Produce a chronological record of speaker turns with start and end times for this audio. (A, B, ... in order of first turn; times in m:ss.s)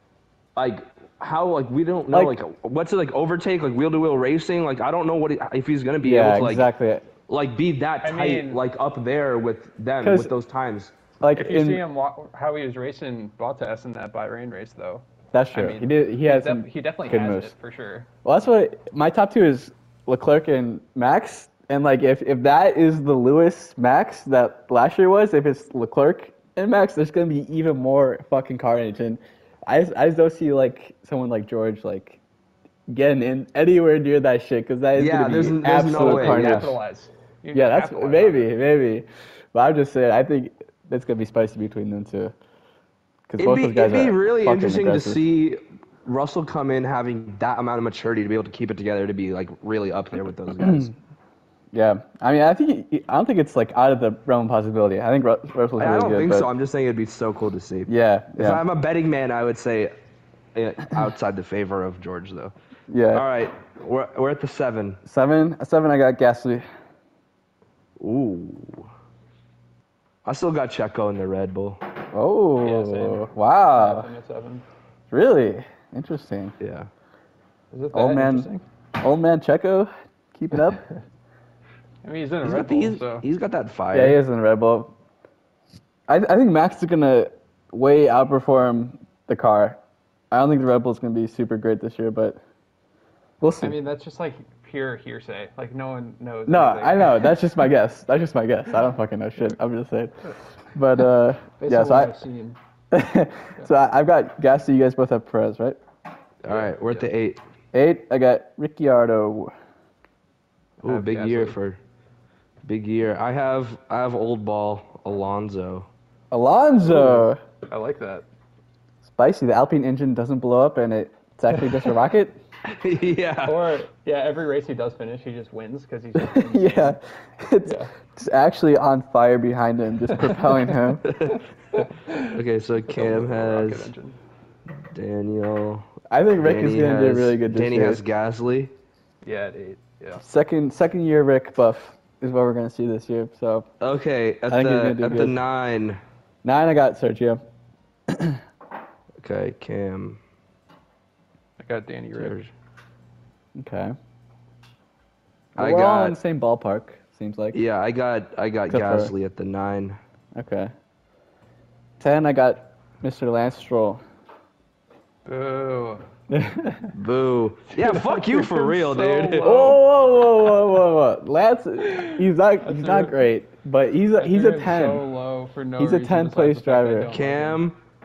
0:00.6-0:06.7 A
0:02.1-0:02.4 B
0:06.0-0:07.1 B
0:07.3-0:10.9 A
0:08.0-0:08.6 C
0:10.0-0:10.3 B
0:11.2-0:11.8 B
0:11.3-0:18.1 C
0:15.3-0:17.5 B
0:18.2-0:32.2 B
0:32.9-0:36.7 B
0:35.0-0:36.7 A
0:35.9-0:38.5 C
0:37.5-0:42.3 B
0:43.3-0:45.2 B
0:43.4-0:50.9 A
0:50.6-0:50.9 B
0:51.7-0:56.5 B
0:55.8-0:59.9 A
0:57.9-0:58.6 B
1:00.5-1:02.5 A
1:02.9-1:03.2 B
1:03.1-1:05.0 A
1:05.0-1:06.6 B
1:08.0-1:08.9 A
1:10.2-1:11.8 A
1:12.1-1:14.1 B
1:12.6-1:14.6 C
1:15.1-1:16.6 B
1:16.6-1:16.9 A
1:17.7-1:18.6 C
1:17.9-1:20.8 B
1:22.0-1:23.2 C
1:22.4-1:24.2 A
1:23.9-1:24.9 B
1:26.1-1:29.8 B
1:30.3-1:32.4 B
1:33.4-1:33.7 B
1:33.6-1:37.4 C
1:36.5-1:40.2 B
1:40.7-1:42.1 B
1:41.6-1:42.6 C
1:42.9-1:45.8 B
1:46.4-1:47.4 A
1:46.4-1:47.1 C
1:47.7-1:49.5 B
1:50.8-1:51.6 C
1:50.8-1:51.8 A
1:52.6-1:55.9 A
1:56.3-1:57.4 B
1:57.0-1:58.3 C
1:59.0-2:02.4 B
2:02.6-2:03.7 A
2:03.4-2:07.0 C
2:06.2-2:11.1 B
2:07.6-2:07.9 C
2:11.0-2:11.4 A
2:11.7-2:14.2 C
2:12.3-2:13.9 A
2:14.8-2:15.9 A
2:16.1-2:18.0 B
2:16.4-2:18.7 A
2:19.2-2:20.2 C
2:20.2-2:23.7 B
2:23.8-2:26.0 A
2:24.5-2:25.4 B
2:26.4-2:27.4 B
2:28.1-2:28.4 B
2:29.2-2:30.2 A
2:31.6-2:32.4 C
2:32.1-2:32.5 A
2:33.6-2:33.9 B
2:35.6-2:37.6 B
2:35.6-2:36.2 A
2:37.5-2:40.0 A
2:38.7-2:39.1 B
2:40.3-2:40.7 B
2:42.0-2:44.0 B
2:45.2-2:46.0 C
2:46.3-2:46.9 B
2:46.9-2:49.8 A
2:47.8-2:49.8 C
2:49.4-2:55.0 B
2:51.9-2:53.2 C
2:54.2-2:57.6 C
2:55.8-2:57.1 B
2:57.1-2:57.8 A